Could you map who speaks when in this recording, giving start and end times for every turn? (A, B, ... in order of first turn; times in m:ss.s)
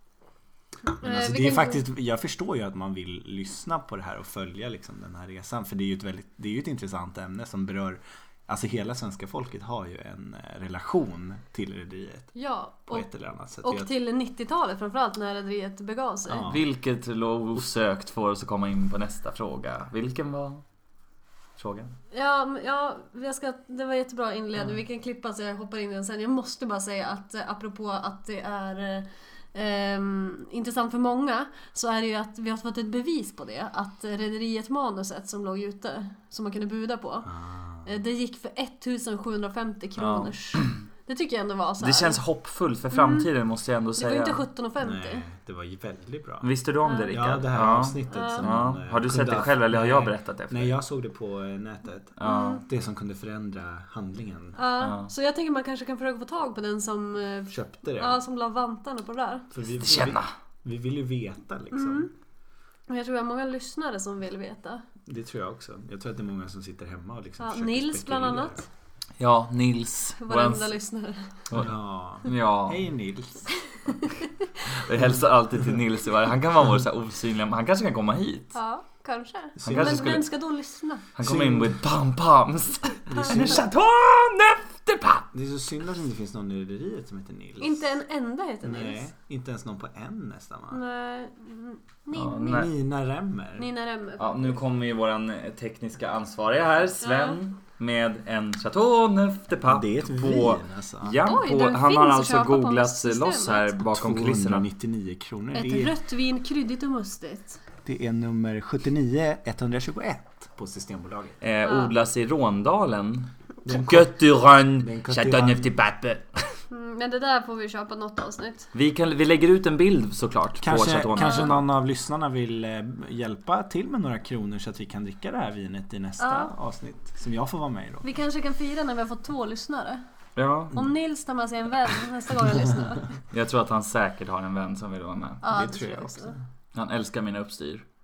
0:00.9-0:01.8 A
0:01.0-0:12.3 B
0:12.3-0:13.1 A
0:12.9-0:13.9 B
0:13.6-0:16.4 A
0:16.3-0:16.6 B
0:16.4-0:20.6 C
0:21.6-0:22.0 C
0:22.1-0:37.3 A
0:37.3-0:38.0 B
0:37.8-0:42.2 A
0:40.0-0:40.8 C
0:41.8-0:44.4 C
0:42.9-0:43.3 A
0:44.0-0:45.2 A
0:44.8-0:46.5 B
0:46.4-0:50.8 C
0:46.8-0:47.1 A
0:47.1-0:54.6 B
0:48.1-0:48.4 A
0:52.2-0:52.6 C
0:52.2-0:52.6 A
0:54.6-0:59.5 A
0:54.8-0:55.1 C
0:57.5-0:58.2 B
0:59.5-1:02.1 B
0:59.8-1:00.3 C
1:01.7-1:02.1 A
1:02.9-1:04.8 A
1:05.0-1:08.7 B
1:07.4-1:08.7 A
1:09.2-1:10.8 C
1:10.2-1:11.5 A
1:11.5-1:12.8 C
1:11.5-1:13.5 B
1:13.6-1:14.3 A
1:14.7-1:18.5 C
1:18.5-1:21.0 A
1:19.6-1:20.2 B
1:19.6-1:20.3 C
1:21.2-1:25.3 C
1:21.2-1:21.8 B
1:23.1-1:23.7 B
1:25.3-1:27.8 B
1:27.6-1:29.1 A
1:28.6-1:30.8 B
1:30.7-1:32.7 A
1:32.1-1:32.7 C
1:32.5-1:33.7 B
1:33.6-1:34.6 A
1:34.2-1:44.6 C
1:37.0-1:37.4 A
1:39.6-1:41.2 B
1:41.2-1:43.8 A
1:43.9-1:45.9 B
1:45.5-1:47.6 A
1:47.8-1:51.4 B
1:51.4-1:56.5 C
1:51.6-1:51.9 A
1:53.6-1:55.7 B
1:56.7-1:58.7 A
1:58.7-2:01.6 C
2:00.6-2:08.0 B
2:01.2-2:01.5 A
2:06.2-2:06.5 A
2:08.0-2:10.0 A
2:10.4-2:10.8 C
2:10.7-2:13.1 A
2:13.3-2:15.4 C
2:15.4-2:16.4 A
2:15.5-2:16.4 B
2:16.7-2:17.8 C